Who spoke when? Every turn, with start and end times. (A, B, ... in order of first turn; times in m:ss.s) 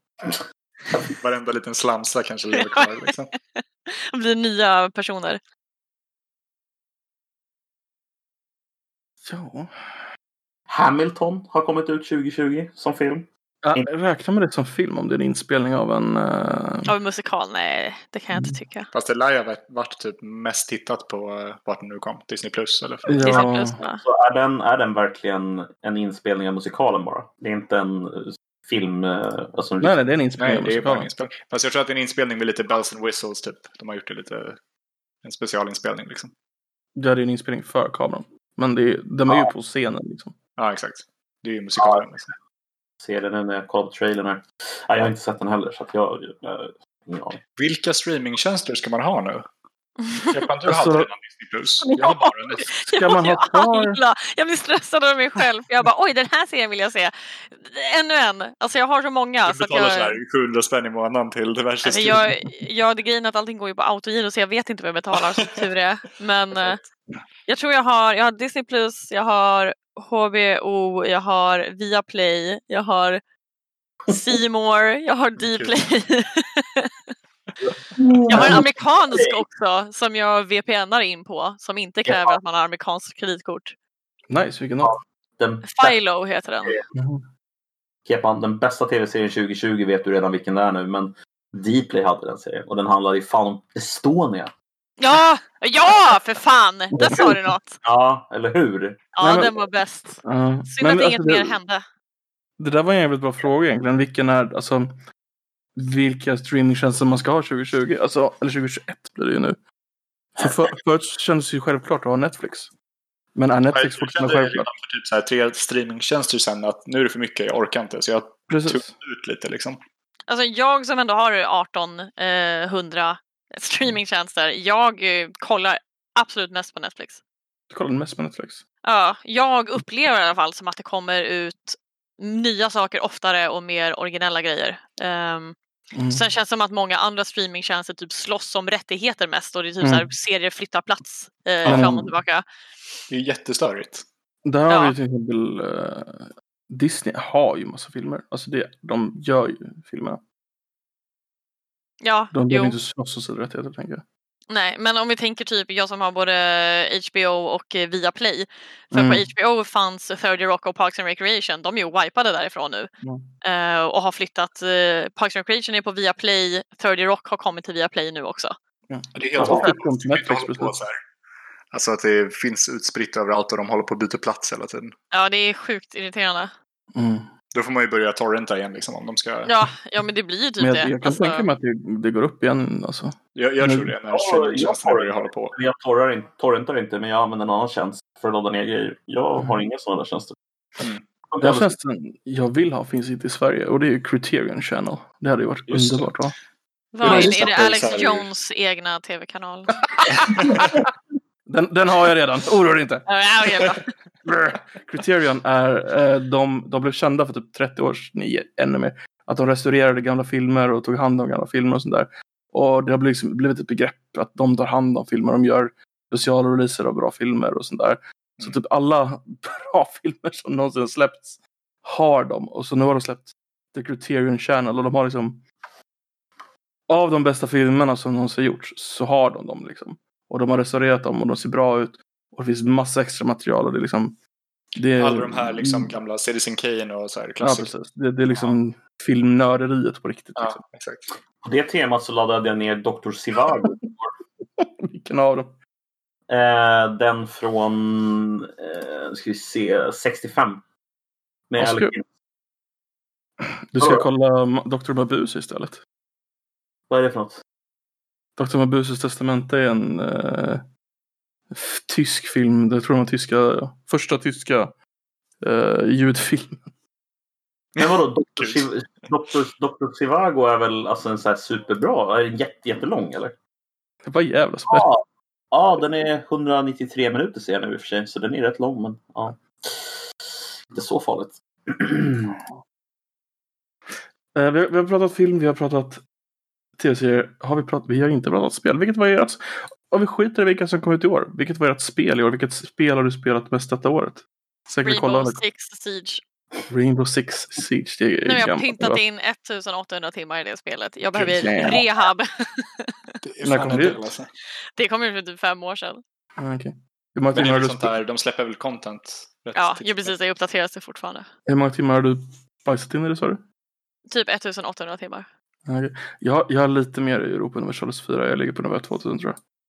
0:01.1-0:03.3 A
0:02.7-0:05.4 B
0:09.2-0:10.0 C
0:10.7-0:13.9 D
0:13.6-0:16.9 C
0:16.9-0:18.9 B
0:18.3-0:18.6 C
0:18.9-0:23.4 A
0:23.1-0:23.8 C
0:23.2-0:24.0 B
0:24.0-0:30.0 D
0:29.8-0:31.1 C
0:30.4-0:34.6 A
0:35.2-0:36.3 A
0:37.0-0:40.4 C
0:40.6-0:42.3 A
0:41.8-0:42.1 D
0:43.0-0:47.4 D
0:47.6-0:49.5 A
0:50.0-0:50.4 B
0:50.3-0:52.8 A
0:50.7-0:51.1 C
0:51.8-1:00.2 B
0:52.8-0:54.0 C
0:59.4-1:02.3 A
1:01.8-1:06.8 B
1:05.4-1:05.7 A
1:07.5-1:13.2 B
1:14.1-1:16.9 B
1:15.4-1:15.8 A
1:18.0-1:19.4 D
1:18.3-1:23.8 B
1:22.1-1:22.4 D
1:24.3-1:25.0 C
1:24.8-1:26.0 D
1:25.6-1:26.8 B
1:27.0-1:27.2 C
1:28.1-1:34.5 D
1:35.0-1:37.8 B
1:37.0-1:39.0 D
1:39.2-1:41.8 B
1:39.2-1:39.5 C
1:40.2-1:41.6 C
1:42.6-1:45.0 C
1:45.8-1:49.6 C
1:50.4-1:52.7 C
1:53.4-1:54.7 C
1:53.7-1:59.8 A
1:58.5-1:58.9 C
2:00.3-2:07.2 B
2:07.7-2:08.6 C
2:08.8-2:15.6 B
2:15.9-2:16.2 C
2:16.1-2:22.4 B
2:19.8-2:20.1 C
2:21.6-2:21.9 A
2:21.7-2:22.1 C
2:23.1-2:24.0 A
2:24.4-2:30.2 C
2:24.7-2:25.0 B
2:32.0-2:32.8 B
2:32.3-2:34.0 C
2:34.5-2:42.9 B
2:38.9-2:39.3 C
2:43.0-2:43.3 C
2:43.4-2:48.6 B
2:48.9-2:50.8 C
2:49.2-2:51.0 A
2:49.4-2:49.7 D
2:51.7-2:55.0 A
2:55.1-2:56.5 B
2:56.9-2:57.3 C
2:57.6-2:59.5 A
2:59.5-3:01.5 B
3:00.6-3:04.0 C
3:03.4-3:05.6 A
3:04.1-3:10.4 D
3:11.3-3:11.7 D
3:11.4-3:16.4 C
3:15.7-3:16.0 A
3:16.9-3:19.8 B
3:17.0-3:18.3 A
3:17.0-3:17.5 C
3:20.1-3:20.8 C
3:21.5-3:23.1 C
3:23.1-3:23.9 B
3:24.2-3:45.4 C
3:46.9-3:54.2 C
3:54.8-3:56.0 C
3:55.0-3:57.7 A
3:57.4-4:00.6 C
4:00.4-4:01.1 A
4:01.4-4:04.1 D
4:04.6-4:05.6 C
4:06.3-4:10.6 D
4:11.5-4:12.1 D
4:11.6-4:11.9 C
4:13.4-4:15.8 C
4:13.8-4:14.1 D
4:16.9-4:17.4 D
4:18.4-4:20.6 C
4:21.5-4:24.7 C
4:25.4-4:26.7 C
4:27.8-4:28.9 A
4:27.8-4:33.4 D
4:34.0-4:34.9 C
4:34.7-4:40.0 D
4:40.7-4:42.4 D
4:44.4-4:46.0 C
4:46.8-4:55.4 C
4:54.8-4:56.2 B
4:56.7-4:59.0 C
4:58.2-5:03.1 B
5:01.1-5:01.8 C
5:03.2-5:04.3 A
5:03.4-5:04.1 C
5:04.8-5:06.0 B
5:06.4-5:08.0 C
5:07.3-5:10.2 A
5:09.6-5:11.3 B
5:11.5-5:13.4 C
5:14.1-5:15.3 B
5:15.7-5:19.4 C